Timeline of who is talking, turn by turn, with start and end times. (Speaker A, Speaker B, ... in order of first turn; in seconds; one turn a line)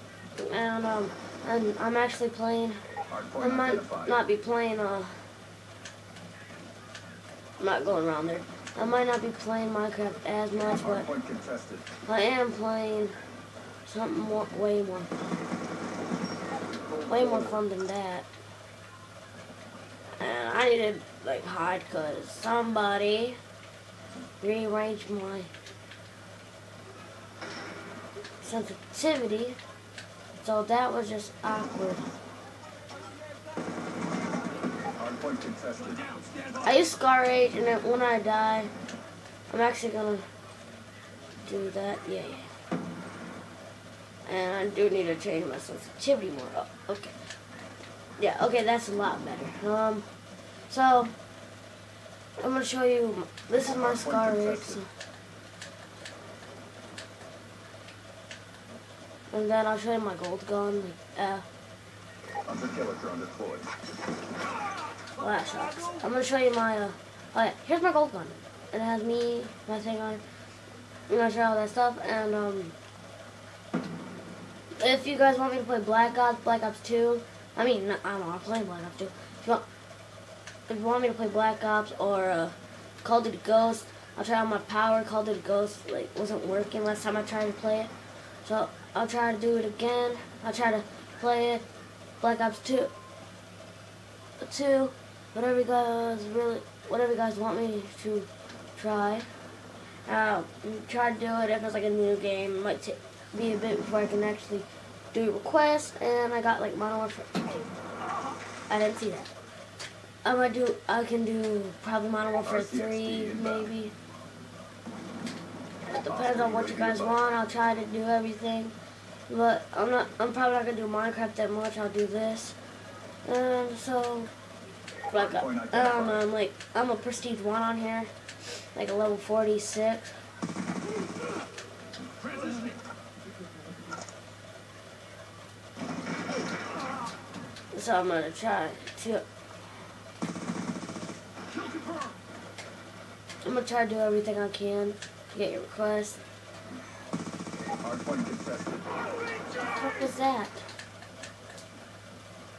Speaker A: 0.4-2.8
Speaker B: 3.1-4.2
Speaker A: 3.4-5.2
Speaker A: 7.6-11.1
Speaker B: 10.8-11.9
Speaker A: 12.1-13.2
Speaker A: 13.9-15.2
Speaker B: 16.7-17.6
Speaker A: 17.1-18.3
Speaker A: 20.2-23.4
Speaker A: 24.4-25.5
Speaker A: 28.4-29.6
Speaker A: 30.4-32.1
Speaker B: 35.0-36.3
Speaker A: 36.6-38.7
Speaker A: 39.5-40.2
Speaker A: 41.4-42.5
Speaker A: 44.3-47.2
Speaker A: 48.2-50.1
Speaker A: 50.7-51.1
Speaker A: 52.4-54.9
Speaker B: 53.6-54.8
Speaker A: 59.3-61.4
Speaker B: 62.5-63.7
Speaker A: 65.2-70.2
Speaker A: 71.1-72.8
Speaker A: 74.8-79.7
Speaker A: 80.7-87.9
Speaker A: 88.4-91.6
Speaker A: 92.2-92.9
Speaker A: 94.4-99.3
Speaker A: 100.1-107.6
Speaker A: 108.7-109.3
Speaker A: 110.2-113.9
Speaker B: 112.4-113.7
Speaker A: 115.9-118.8
Speaker B: 116.1-117.2
Speaker A: 119.3-122.6
Speaker A: 123.2-124.3
Speaker A: 125.1-128.1
Speaker B: 125.1-126.2
Speaker A: 128.8-130.2
Speaker A: 137.7-139.2
Speaker A: 143.4-146.2
Speaker B: 147.8-148.9
Speaker A: 149.5-150.7